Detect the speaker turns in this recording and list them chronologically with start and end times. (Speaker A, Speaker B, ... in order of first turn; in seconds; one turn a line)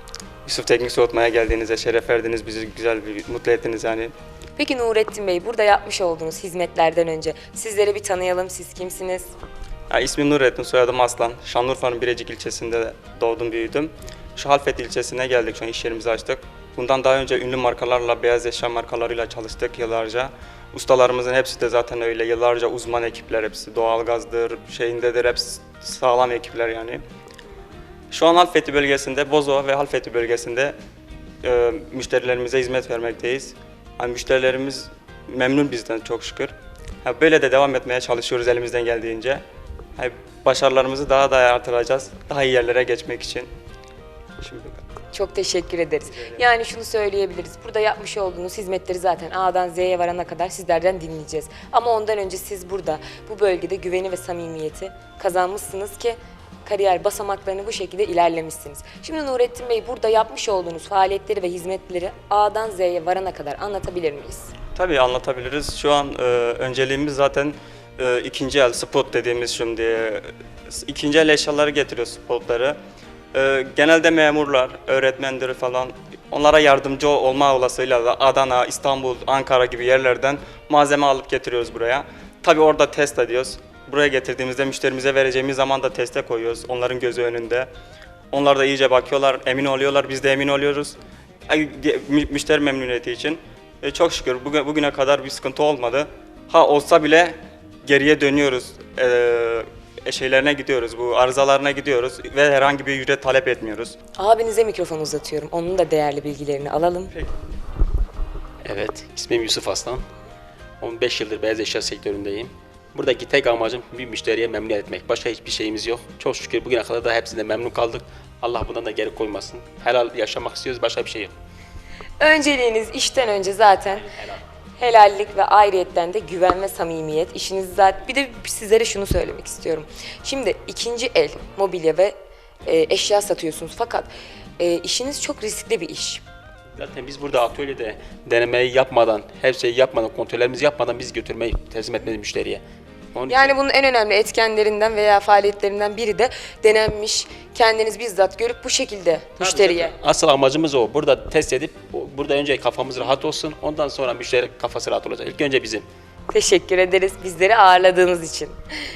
Speaker A: 0.5-4.1
Speaker B: 4.6-9.3
Speaker A: 9.9-27.0
Speaker A: 28.1-30.8
Speaker A: 31.4-39.4
Speaker A: 40.0-43.5
Speaker A: 44.4-44.8
Speaker B: 45.1-64.5
Speaker A: 64.8-72.8
Speaker A: 73.3-87.7
Speaker A: 88.3-91.0
Speaker A: 91.5-104.0
Speaker B: 104.2-107.1
Speaker C: 108.7-110.0
Speaker C: 110.8-121.3
Speaker B: 122.2-124.1
Speaker C: 123.9-124.4
Speaker B: 124.8-132.2
Speaker B: 132.7-136.2
Speaker C: 136.8-142.6
Speaker C: 143.1-143.6
Speaker B: 143.3-149.9
Speaker C: 149.4-155.8
Speaker B: 156.3-158.6